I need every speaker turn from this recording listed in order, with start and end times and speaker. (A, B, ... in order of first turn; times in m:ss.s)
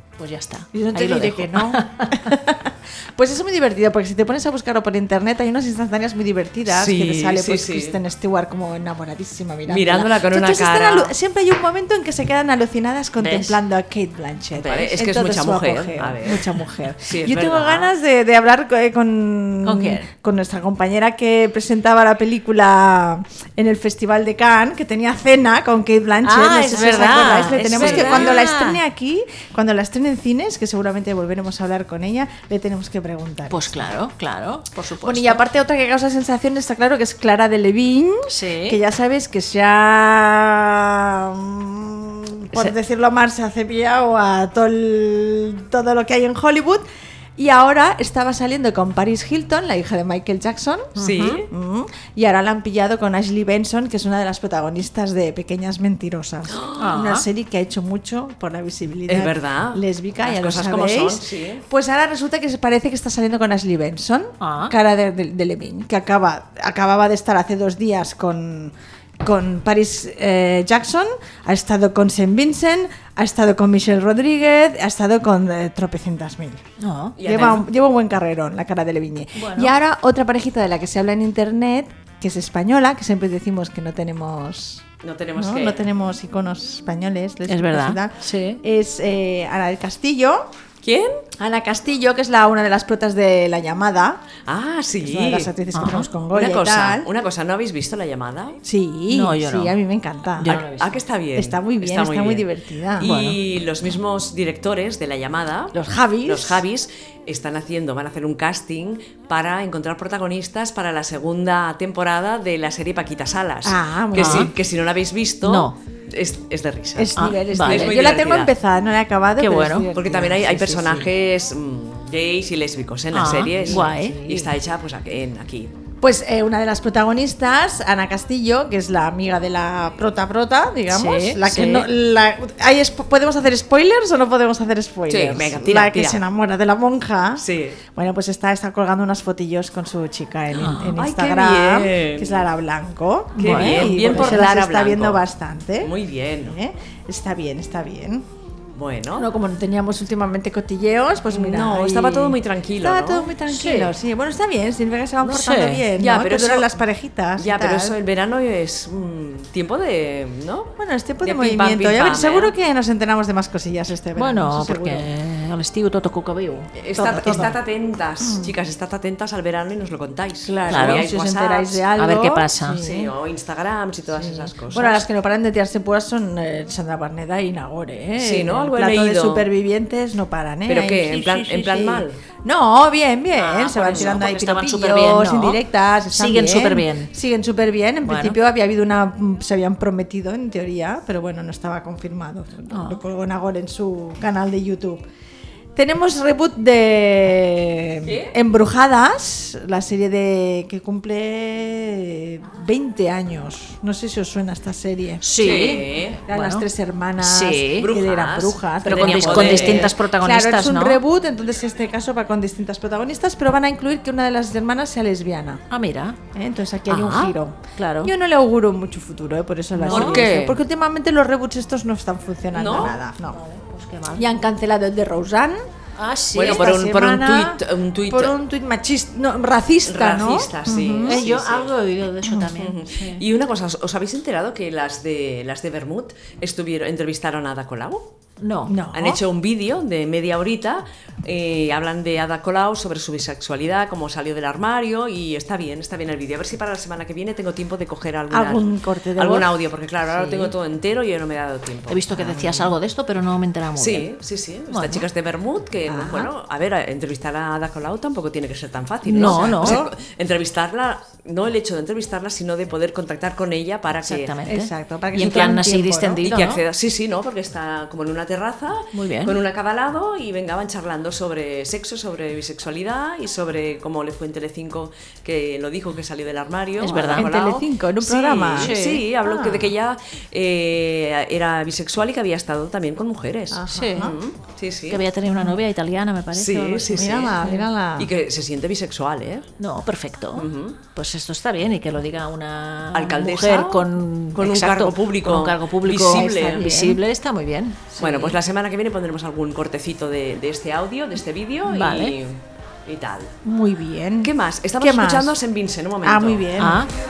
0:00.2-0:02.3 A
0:00.7-0:33.7 B
0:06.7-0:08.0 C
0:09.6-0:11.1 C
0:13.2-0:13.6 A
0:14.5-0:14.9 A
0:14.6-0:17.9 C
0:19.6-0:20.1 A
0:26.2-0:28.8 A
0:27.5-0:28.4 C
0:33.5-0:35.4 A
0:35.0-0:46.8 B
0:38.3-0:38.8 A
0:47.4-0:50.9 B
0:51.0-0:51.5 A
0:51.0-0:51.5 C
0:51.5-1:16.6 B
0:56.5-0:56.9 C
0:56.8-0:57.2 A
0:59.1-1:01.6 C
1:04.4-1:04.7 A
1:16.8-1:17.2 A
1:17.2-1:17.6 C
1:17.2-1:24.8 B
1:19.3-1:19.7 A
1:25.0-1:25.8 C
1:25.4-1:30.5 B
1:27.5-1:28.6 A
1:30.8-1:31.2 C
1:31.4-1:34.2 B
1:34.4-1:35.5 C
1:35.0-1:37.1 B
1:35.7-1:36.1 A
1:36.3-1:38.6 C
1:38.6-1:40.6 B
1:39.1-1:39.8 A
1:40.4-1:41.0 A
1:40.4-1:58.5 C
1:41.3-1:43.1 B
1:43.0-1:43.4 A
1:45.7-1:46.6 B
1:53.6-1:54.5 B
1:54.1-1:54.5 A
1:55.4-1:55.8 A
1:57.0-2:01.1 B
1:57.2-1:58.0 A
1:59.4-1:59.9 A
1:59.9-2:05.7 C
2:03.1-2:04.2 A
2:03.6-2:04.5 B
2:06.0-2:28.2 B
2:10.9-2:11.9 A
2:15.1-2:16.2 C
2:17.4-2:17.8 C
2:20.5-2:21.0 A
2:21.0-2:22.5 C
2:23.4-2:25.2 C
2:23.4-2:24.4 A
2:25.8-2:26.6 C
2:28.7-2:29.3 C
2:29.2-2:38.0 B
2:31.3-2:33.3 C
2:33.5-2:33.9 A
2:35.2-2:35.8 A
2:36.0-2:36.8 C
2:37.4-2:42.5 C
2:40.8-2:45.0 B
2:44.2-2:47.5 A
2:46.8-2:51.8 C
2:47.0-2:47.5 B
2:50.4-2:53.1 B
2:50.7-2:51.1 A
2:52.0-2:52.9 A
2:52.7-2:55.0 C
2:54.2-3:15.0 B
2:58.2-2:59.5 C
3:00.7-3:02.2 C
3:03.4-3:05.6 A
3:03.8-3:04.2 C
3:06.1-3:07.1 A
3:08.0-3:08.4 A
3:12.7-3:13.0 A
3:15.7-3:25.7 B
3:18.0-3:18.3 C
3:25.2-3:26.6 A
3:25.4-3:26.2 C
3:26.3-3:35.6 B
3:27.2-3:27.9 A
3:27.7-3:29.9 C
3:28.8-3:31.0 A
3:35.7-3:36.2 A
3:36.3-3:43.4 B
3:36.9-3:37.3 C
3:37.8-3:38.1 A
3:39.8-3:40.2 A
3:39.8-3:40.6 C
3:42.5-3:43.0 C
3:43.3-3:44.4 A
3:44.2-3:45.6 B
3:46.0-3:46.7 A
3:46.3-3:48.3 C
3:46.3-3:51.2 B
3:49.8-3:51.7 C
3:51.0-3:53.2 A
3:52.5-3:58.1 C
3:58.4-3:58.7 A
3:58.7-3:59.2 B
3:58.9-4:08.6 C
4:08.3-4:10.5 B
4:09.2-4:12.1 C
4:11.9-4:14.1 A
4:12.1-4:12.7 B
4:13.8-4:24.4 C
4:14.7-4:15.1 A
4:15.9-4:16.3 B
4:19.0-4:19.8 A
4:19.1-4:19.9 B
4:24.0-4:26.6 A
4:24.5-4:26.2 B
4:26.2-4:45.0 C
4:28.9-4:29.4 A
4:36.8-4:37.3 A
4:37.1-4:39.7 B
4:38.6-4:39.0 A
4:43.5-4:44.1 B
4:43.7-4:44.1 A
4:44.9-4:47.6 A
4:46.3-4:49.5 C
4:46.9-4:48.1 B
4:49.6-4:58.4 A
4:50.3-4:50.8 C
4:52.9-4:56.8 C
4:56.0-4:57.0 B
4:58.0-5:03.3 C
5:01.6-5:02.2 A
5:03.4-5:05.4 B
5:04.2-5:06.4 C
5:06.0-5:06.8 B
5:06.6-5:06.9 A